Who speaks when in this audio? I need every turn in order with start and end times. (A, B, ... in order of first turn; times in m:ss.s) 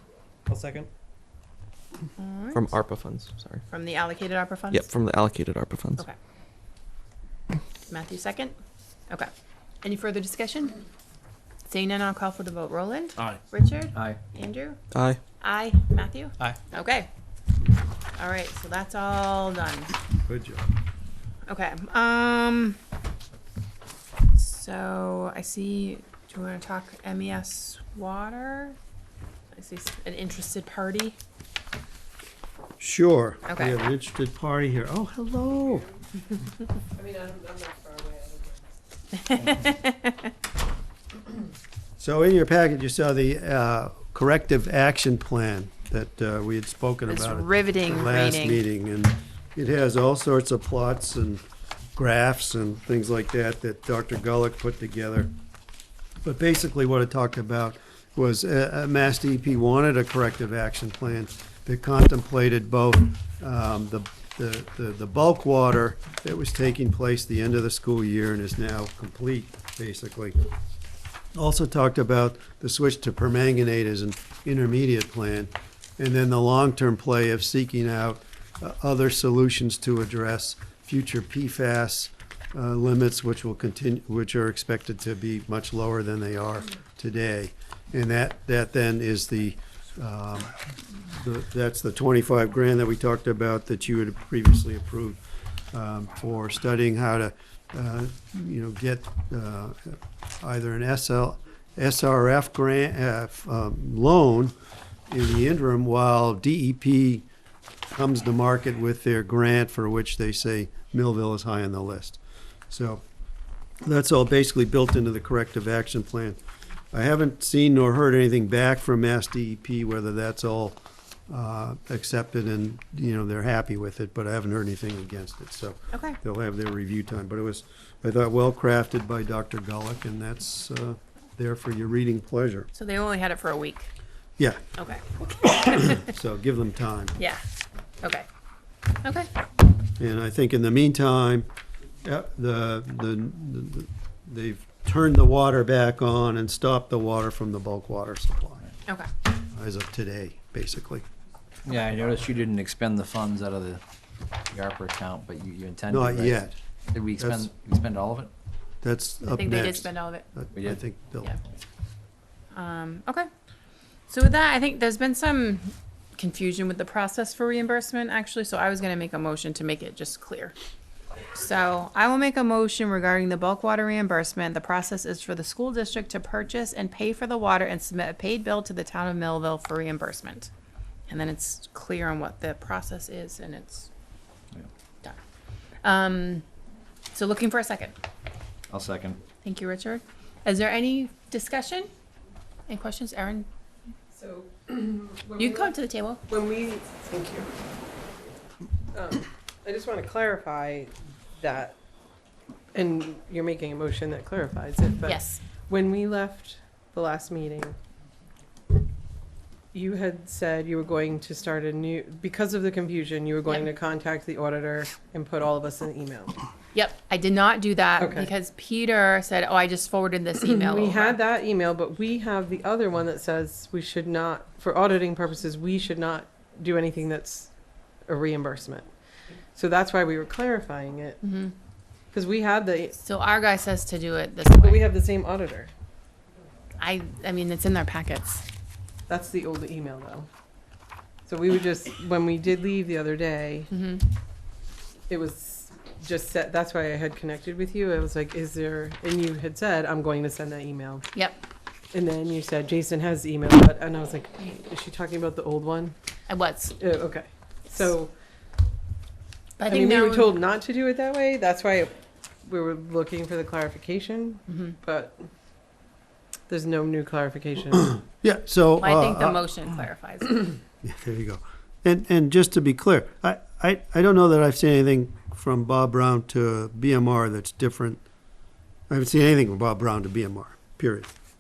0:00.5-0:00.9 A
0:02.2-0:02.7 B
0:02.5-0:03.6 C
0:03.7-0:04.9 B
0:04.7-0:06.0 C
0:07.9-0:08.6 B
0:09.8-0:10.8 B
0:11.6-0:14.8 B
0:14.9-0:15.2 C
0:15.4-0:17.1 B
0:18.1-0:20.0 B
0:20.2-0:20.7 D
0:21.5-0:22.8 B
0:24.3-0:28.8 B
0:29.5-0:31.2 B
0:32.8-0:35.9 D
0:33.5-0:33.8 B
0:36.9-0:38.7 E
0:39.3-0:40.3 B
0:42.0-0:51.4 D
0:47.1-0:48.6 B
0:52.0-0:55.3 D
0:56.2-1:10.4 D
1:11.3-1:35.2 D
1:35.7-1:44.5 D
1:45.1-1:47.2 D
1:47.9-1:53.0 D
1:53.8-1:56.4 D
1:56.9-2:12.7 D
2:05.9-2:06.2 B
2:12.7-2:13.9 B
2:14.8-2:16.0 B
2:15.4-2:17.2 D
2:17.2-2:17.4 B
2:18.0-2:18.2 B
2:19.0-2:19.3 B
2:20.0-2:21.5 D
2:22.0-2:28.6 D
2:29.4-2:31.0 D
2:31.6-2:33.8 A
2:34.5-2:38.3 A
2:35.9-2:36.5 D
2:37.1-2:37.5 D
2:38.8-2:41.4 D
2:39.3-2:40.2 B
2:40.5-2:40.8 A
2:42.5-2:43.3 B
2:44.1-2:50.6 B
2:51.3-3:00.5 B
3:01.1-3:03.9 B
3:05.8-3:06.4 B
3:07.1-3:07.9 B
3:08.7-3:09.2 A
3:09.4-3:11.9 B
3:12.7-3:13.5 B
3:14.1-3:15.7 E
3:15.4-3:16.2 B
3:16.3-3:17.6 E
3:18.9-3:21.8 E
3:22.7-3:27.8 E
3:25.0-3:25.4 B
3:29.7-3:36.4 E
3:36.7-3:41.2 B
3:38.0-3:38.3 E
3:40.4-3:47.5 E
3:48.1-3:48.9 E
3:49.5-3:51.2 E
3:51.2-3:51.5 B
3:52.1-3:53.0 E
3:53.0-3:54.9 B
3:54.6-3:55.7 E
3:56.8-3:58.4 B
3:59.1-4:00.3 E
4:01.2-4:03.7 E
4:03.7-4:04.1 B
4:05.1-4:11.0 E
4:11.1-4:11.4 B
4:11.9-4:15.9 E
4:16.3-4:16.8 B
4:16.8-4:18.1 E
4:19.6-4:20.3 B
4:19.7-4:21.9 E
4:22.4-4:25.3 E
4:24.5-4:24.8 B
4:26.5-4:27.9 E
4:27.8-4:29.5 D
4:28.8-4:30.5 B
4:30.8-4:38.0 D
4:38.9-4:41.1 D